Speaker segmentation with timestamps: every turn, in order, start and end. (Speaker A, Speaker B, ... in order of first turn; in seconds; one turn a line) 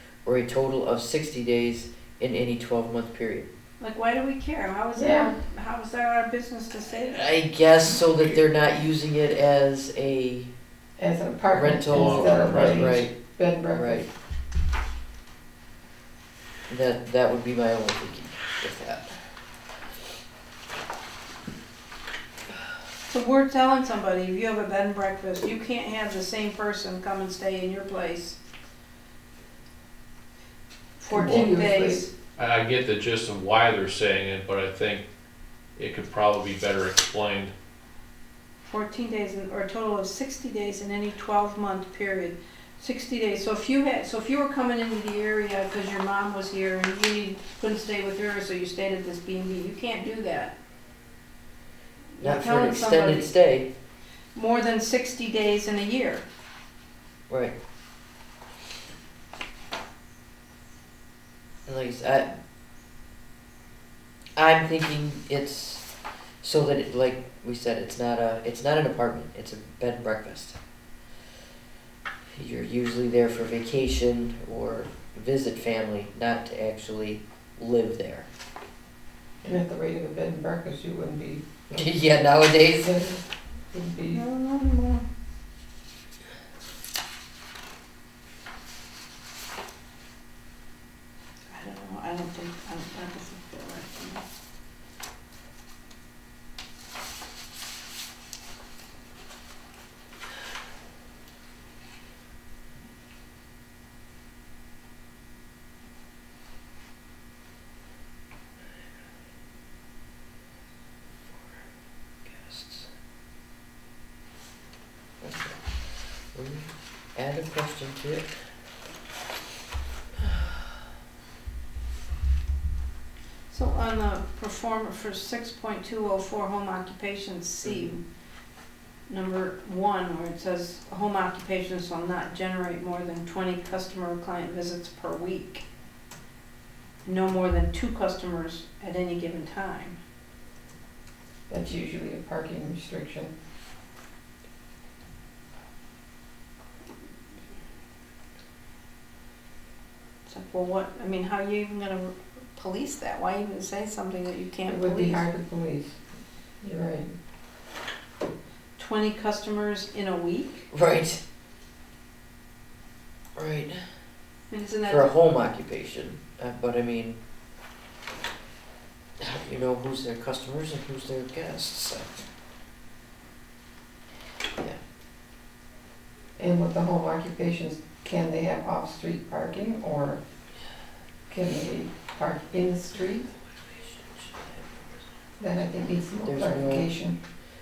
Speaker A: 0.2-3.5
Speaker B: 3.8-7.3
Speaker C: 5.0-5.3
Speaker A: 7.0-10.5
Speaker C: 11.0-14.1
Speaker A: 11.5-13.1
Speaker D: 11.6-13.1
Speaker A: 13.7-14.1
Speaker A: 16.7-19.2
Speaker B: 23.1-28.4
Speaker B: 31.0-32.1
Speaker C: 31.1-32.0
Speaker D: 32.4-35.1
Speaker D: 35.8-37.5
Speaker B: 38.7-50.6
Speaker B: 52.2-53.3
Speaker A: 52.2-53.7
Speaker B: 54.4-56.2
Speaker A: 61.7-62.4
Speaker A: 64.4-65.9
Speaker A: 66.4-70.6
Speaker A: 72.3-78.3
Speaker C: 79.5-81.5
Speaker A: 81.7-83.1
Speaker C: 82.9-83.2
Speaker C: 83.7-84.2
Speaker B: 84.1-85.0
Speaker B: 91.5-94.2
Speaker A: 111.3-111.6
Speaker A: 112.2-112.9
Speaker A: 115.2-115.8
Speaker A: 116.3-118.3
Speaker B: 123.5-128.0
Speaker B: 129.1-135.6
Speaker B: 137.1-140.0
Speaker C: 141.5-143.3
Speaker B: 150.3-155.2
Speaker C: 154.7-156.0
Speaker C: 156.6-157.1
Speaker B: 158.8-160.7
Speaker A: 160.7-161.2
Speaker A: 163.4-163.8
Speaker B: 164.5-165.1
Speaker A: 164.8-167.2
Speaker A: 169.2-172.1
Speaker C: 176.4-180.2
Speaker C: 181.3-183.3
Speaker A: 183.4-185.0
Speaker C: 185.4-187.2
Speaker A: 186.2-186.9